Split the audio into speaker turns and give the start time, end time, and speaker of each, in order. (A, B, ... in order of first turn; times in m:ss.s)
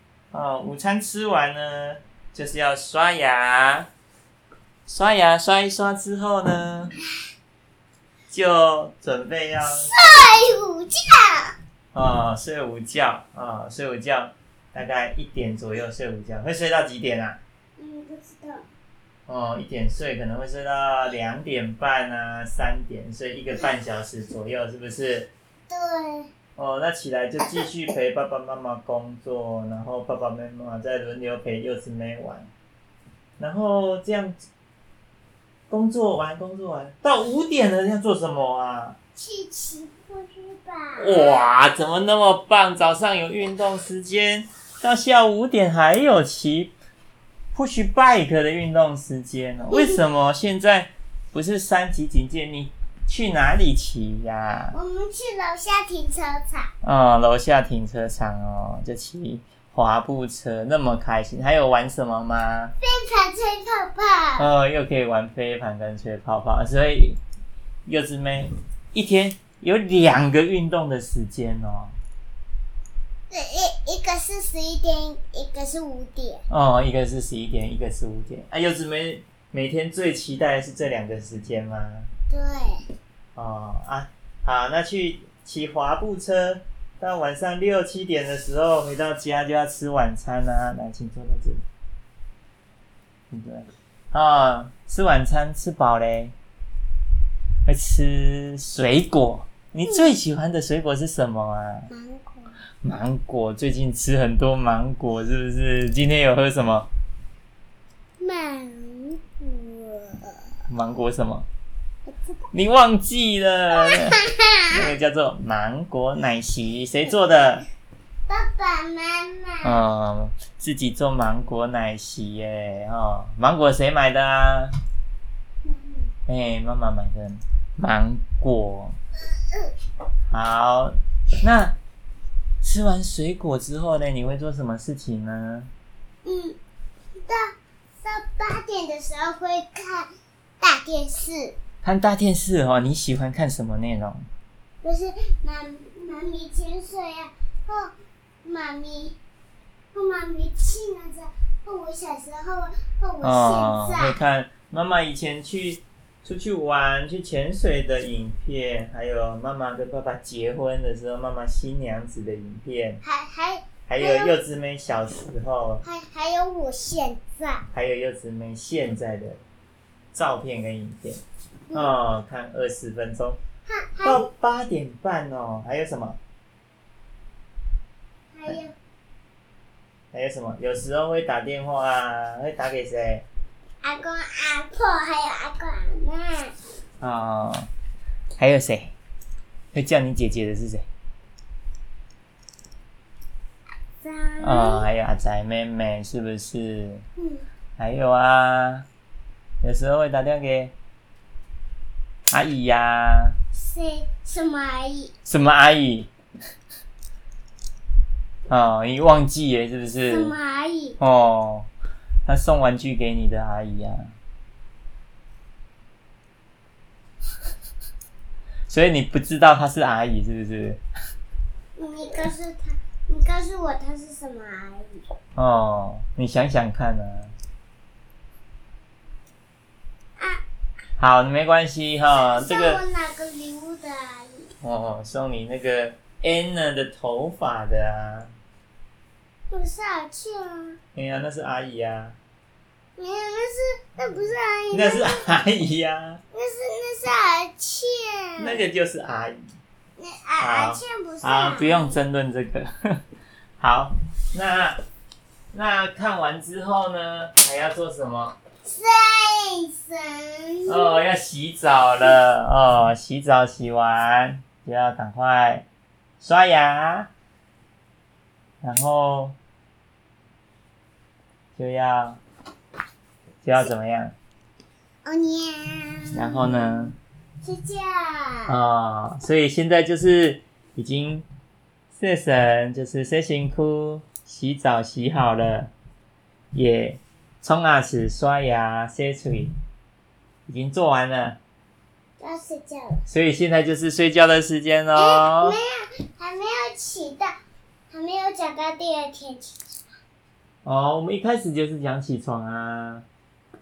0:00.3-0:03.9 A
0:04.9-0:06.9 A
0:08.3-0:09.9 A
0:09.8-0:11.6 B
0:11.9-0:17.4 A
0:17.8-0:18.6 B
0:19.3-0:25.3 A
0:25.7-0:26.3 B
0:26.6-0:32.5 A
0:33.4-0:34.4 A
0:35.7-0:39.0 A
0:39.2-0:41.5 B
0:41.0-0:46.7 A
0:47.5-0:54.8 A
0:49.7-0:50.0 B
0:54.7-0:56.7 B
0:56.8-1:02.7 A
1:02.8-1:04.5 B
1:04.4-1:07.2 A
1:07.9-1:12.0 A
1:13.3-1:16.4 B
1:16.5-1:22.1 A
1:22.3-1:22.8 B
1:23.4-1:31.6 A
1:33.3-1:36.4 A
1:37.6-1:41.9 A
1:41.9-1:42.6 B
1:42.8-1:46.9 A
1:48.2-1:50.4 B
1:50.7-1:51.4 A
1:52.5-1:54.2 A
1:53.8-1:54.7 B
1:54.7-1:57.6 A
1:58.3-1:59.8 B
1:59.6-2:04.7 A
2:05.6-2:06.1 B
2:06.3-2:09.0 A
2:10.3-2:11.8 A
2:12.6-2:15.7 A
2:16.2-2:16.6 B
2:17.2-2:20.1 B
2:20.6-2:21.6 B
2:21.8-2:24.3 A
2:24.8-2:27.9 B
2:28.4-2:29.2 B
2:29.9-2:34.2 B
2:33.2-2:43.0 A
2:43.0-2:44.3 B
2:43.9-2:45.8 A
2:45.8-2:47.7 B
2:47.7-2:49.4 A
2:50.1-2:51.2 A
2:51.7-2:53.4 A
2:53.6-2:54.3 B
2:54.0-2:56.2 A
2:58.3-2:58.7 B
3:00.1-3:03.2 A
3:03.8-3:06.5 B
3:07.0-3:07.7 A
3:08.4-3:08.9 A
3:09.7-3:10.9 A
3:14.0-3:14.9 B
3:14.4-3:17.0 A
3:17.2-3:17.4 B
3:17.8-3:18.9 A
3:19.6-3:20.7 A
3:22.3-3:23.4 A
3:23.5-3:25.1 B
3:25.2-3:26.1 A
3:28.5-3:30.4 A
3:30.1-3:31.0 B
3:31.0-3:31.7 A
3:32.2-3:34.1 A
3:38.7-3:40.8 A
3:41.8-3:45.0 B
3:45.4-3:47.3 A
3:50.2-3:50.4 B
3:51.0-3:52.8 A
3:52.1-3:54.5 B
3:54.6-3:58.3 A
3:59.5-4:00.8 B
4:00.9-4:02.2 A
4:03.0-4:05.2 B
4:04.7-4:06.2 A
4:06.3-4:08.6 B
4:08.4-4:09.4 A
4:10.0-4:12.0 B
4:10.4-4:13.0 A
4:13.6-4:14.8 A
4:15.5-4:18.4 A
4:18.6-4:21.0 B
4:20.7-4:25.6 A
4:26.2-4:27.1 A
4:28.6-4:29.4 A
4:31.6-4:32.2 A
4:33.4-4:34.1 A
4:35.0-4:36.9 B
4:36.1-4:36.9 A
4:37.4-4:38.5 B
4:38.5-4:41.2 A
4:42.0-4:45.7 A
4:46.5-4:49.5 A
4:50.5-4:51.4 A
4:52.2-4:53.0 B
4:53.0-4:55.6 A
4:55.0-4:57.3 B
4:57.9-4:59.6 B
5:00.6-5:03.0 A